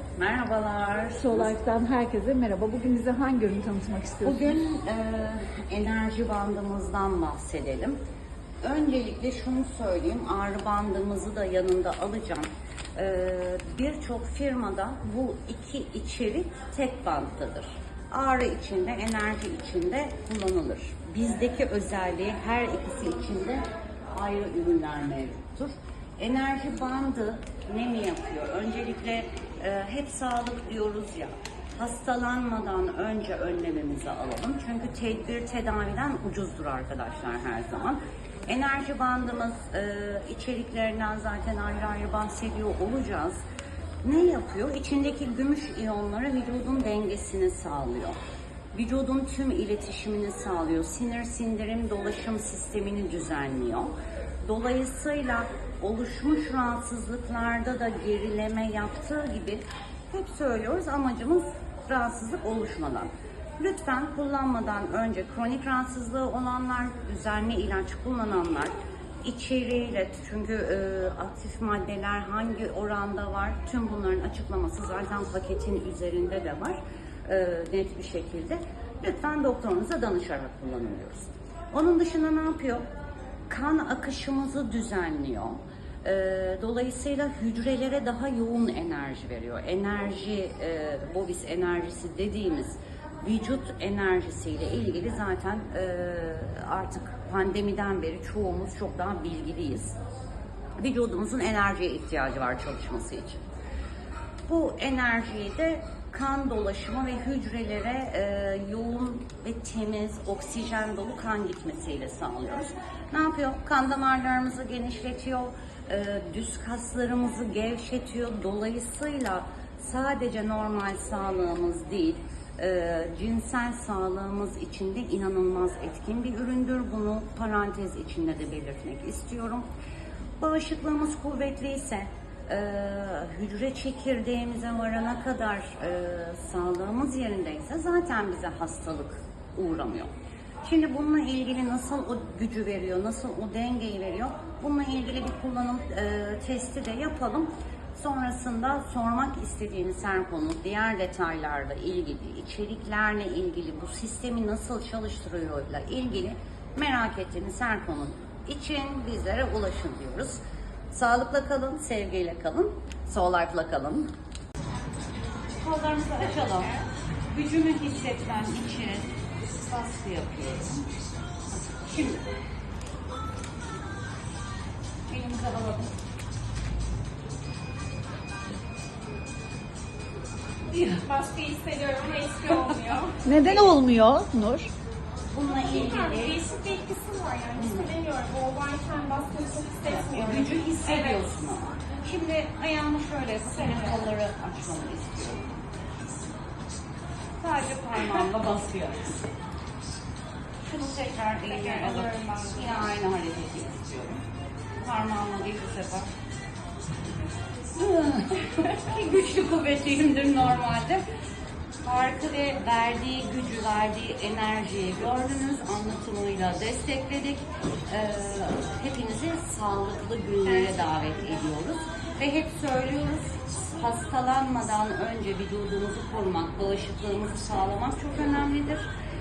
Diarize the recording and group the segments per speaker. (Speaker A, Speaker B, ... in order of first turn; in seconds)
Speaker A: 0.2-1.6, 4.2-8.0, 8.6-23.6, 24.1-43.4, 44.0-48.2, 48.7-82.8, 83.5-100.0, 100.8-103.4, 104.5-129.7, 130.4-140.1, 140.6-160.4, 160.9-164.1, 165.6-170.8, 171.8-172.2, 175.1-175.9, 180.7-181.1, 185.3-186.4, 187.6-187.9, 189.9-195.5, 197.4-199.1, 200.6-204.2, 204.8-206.1, 207.8-211.0, 211.8-228.9
Speaker B: 1.1-4.5, 183.2-184.7
Speaker C: 181.0-183.3, 185.5-191.2, 193.6-194.0, 201.5-202.8